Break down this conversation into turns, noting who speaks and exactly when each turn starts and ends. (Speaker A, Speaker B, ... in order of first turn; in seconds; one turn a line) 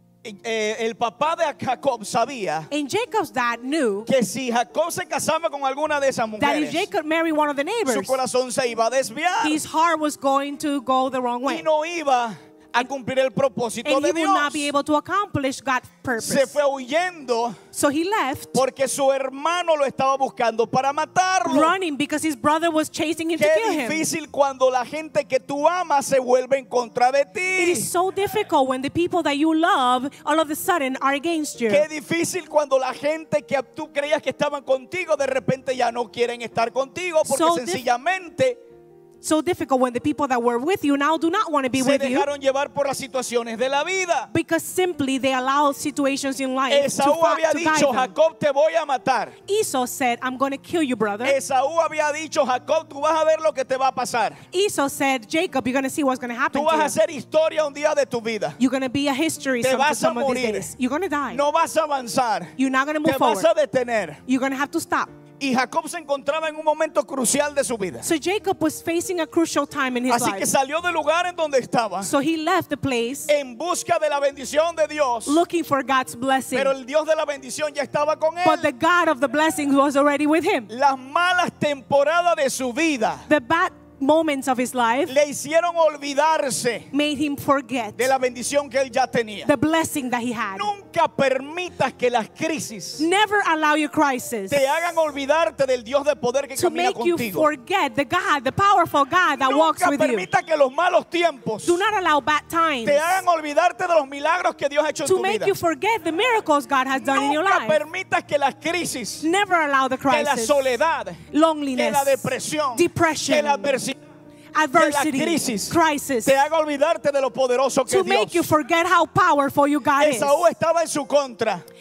Speaker A: 0.2-2.7
Speaker B: 2.7-4.1
Speaker A: 4.0-6.9
Speaker B: 6.4-8.2
Speaker A: 7.9-9.6
Speaker B: 9.4-11.7
Speaker A: 11.4-14.7
Speaker B: 13.8-16.6
Speaker A: 16.2-17.6
Speaker B: 17.7-18.6
Speaker A: 18.5-21.7
Speaker B: 21.4-24.1
Speaker A: 23.4-27.9
Speaker B: 27.6-31.9
Speaker A: 31.7-38.6
Speaker B: 37.2-37.8
Speaker B: 39.2-42.3
Speaker A: 41.7-44.3
Speaker B: 44.3-48.1
Speaker A: 46.7-49.4
Speaker B: 49.5-51.4
Speaker A: 51.2-54.4
Speaker B: 54.5-56.9
Speaker A: 56.5-58.6
Speaker B: 58.6-61.4
Speaker A: 59.6-60.7
Speaker A: 61.3-64.2
Speaker B: 62.6-63.5
Speaker B: 64.3-65.1
Speaker A: 65.4-68.1
Speaker B: 68.0-70.5
Speaker A: 70.1-72.1
Speaker B: 72.0-73.3
Speaker A: 73.3-75.4
Speaker B: 75.2-76.7
Speaker A: 76.5-78.7
Speaker B: 78.4-80.7
Speaker A: 80.7-83.2
Speaker B: 83.3-85.1
Speaker A: 85.1-86.9
Speaker B: 86.9-88.1
Speaker A: 88.0-89.5
Speaker B: 89.4-90.7
Speaker A: 90.5-93.1
Speaker B: 93.0-94.7
Speaker A: 94.5-97.5
Speaker B: 96.5-100.3
Speaker A: 99.4-101.8
Speaker B: 101.6-103.2
Speaker A: 102.8-105.5
Speaker B: 105.0-107.8
Speaker A: 106.9-109.2
Speaker B: 109.2-110.8
Speaker A: 110.1-111.2
Speaker B: 111.3-113.8
Speaker A: 111.7-114.0
Speaker B: 114.5-116.4
Speaker A: 114.7-118.5
Speaker B: 117.9-120.4
Speaker A: 120.0-121.6